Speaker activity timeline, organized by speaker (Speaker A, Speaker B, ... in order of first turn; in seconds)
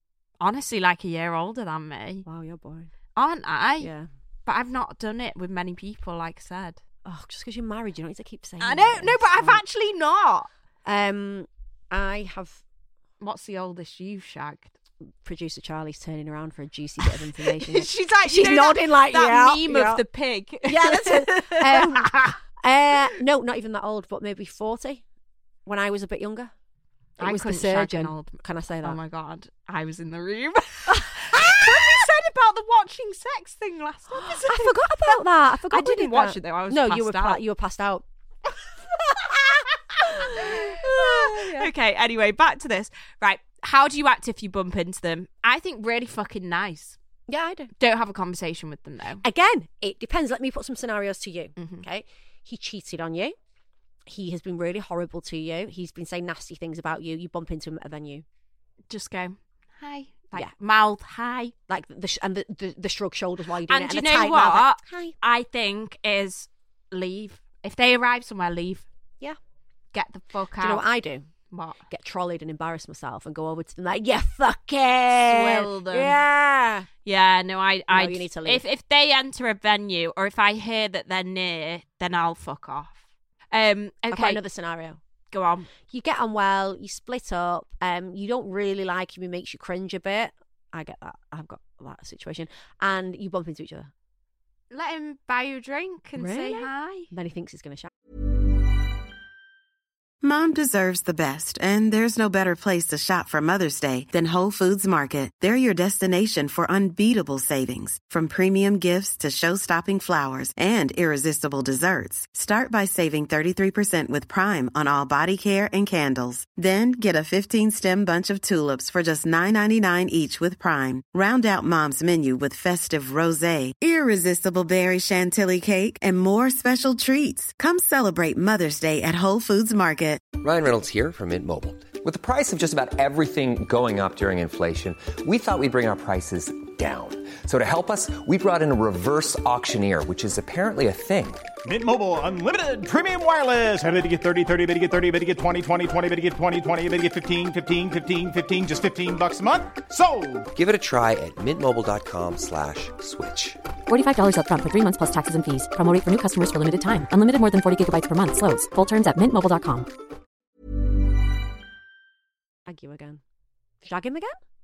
Speaker A: 0.4-2.2, 3.1-3.9, 4.5-6.8, 8.6-10.5, 13.2-14.7, 17.0-22.4, 27.2-35.2, 35.7-37.4, 40.0-47.0, 47.8-49.2, 51.6-51.9, 58.9-61.5, 63.7-68.9, 69.9-70.9, 71.5-71.8, 75.2-76.2, 77.0-83.0, 83.5-84.4, 85.3-85.7, 94.7-97.1
Speaker B: 2.2-2.9, 3.8-4.1, 7.0-9.6, 10.8-12.6, 15.2-20.1, 20.6-25.0, 25.7-26.5, 27.2-29.0, 30.9-32.0, 34.4-41.7, 47.3-47.7, 49.2-53.4, 54.1-58.2, 61.7-65.2, 70.6-71.3, 71.9-76.9, 77.9-78.6, 84.1-85.0, 85.8-93.9, 96.2-97.9, 162.7-163.2, 163.8-164.4
Speaker C: 100.2-130.3
Speaker D: 130.4-141.5, 150.5-153.6
Speaker E: 141.7-150.5
Speaker F: 153.9-159.9